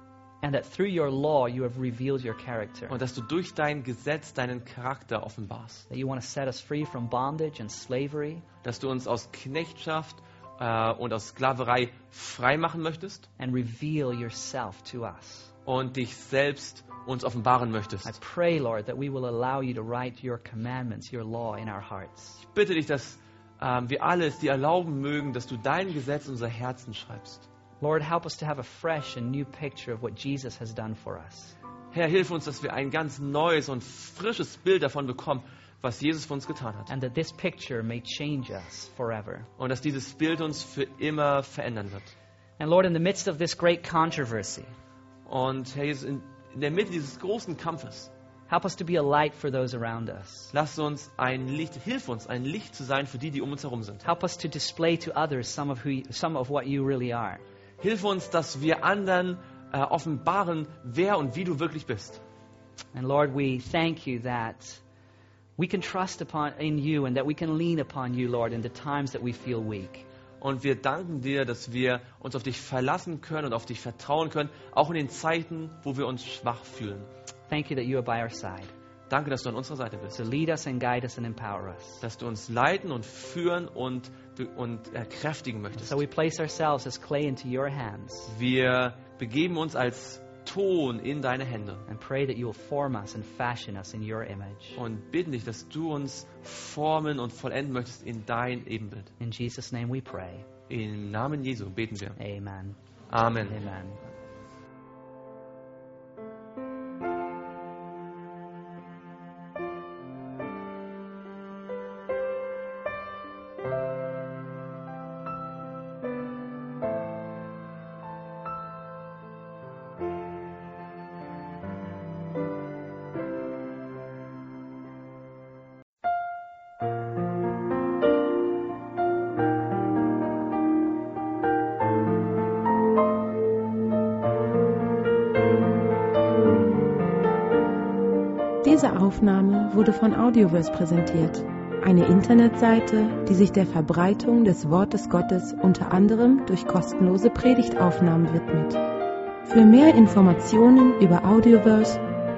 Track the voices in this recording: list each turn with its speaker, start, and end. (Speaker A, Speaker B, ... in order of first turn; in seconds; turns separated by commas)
Speaker A: 0.4-3.0, Speaker B: 2.9-5.8, Speaker A: 5.9-8.5, Speaker B: 8.6-13.3, Speaker A: 13.4-15.5, Speaker B: 15.7-18.2, Speaker A: 18.1-22.4, Speaker B: 22.4-27.4, Speaker A: 27.8-31.5, Speaker B: 31.9-36.9, Speaker A: 36.9-39.5, Speaker B: 39.6-42.1, Speaker A: 42.6-44.7, Speaker B: 45.3-48.1, Speaker A: 48.5-50.5, Speaker B: 50.5-54.1, Speaker A: 54.0-57.4, Speaker B: 57.8-62.2, Speaker A: 62.9-64.8, Speaker A: 65.6-70.0, Speaker B: 70.4-77.1, Speaker A: 77.5-78.7, Speaker B: 79.1-80.2, Speaker A: 80.1-82.0, Speaker B: 82.0-86.0, Speaker A: 85.8-88.3, Speaker B: 88.3-91.8, Speaker A: 91.9-94.8, Speaker B: 94.8-99.1, Speaker A: 99.2-100.5, Speaker B: 100.7-102.2, Speaker A: 102.2-102.8, Speaker B: 103.1-103.6, Speaker A: 103.5-104.0, Speaker C: 138.6-148.8, Speaker C: 149.5-152.0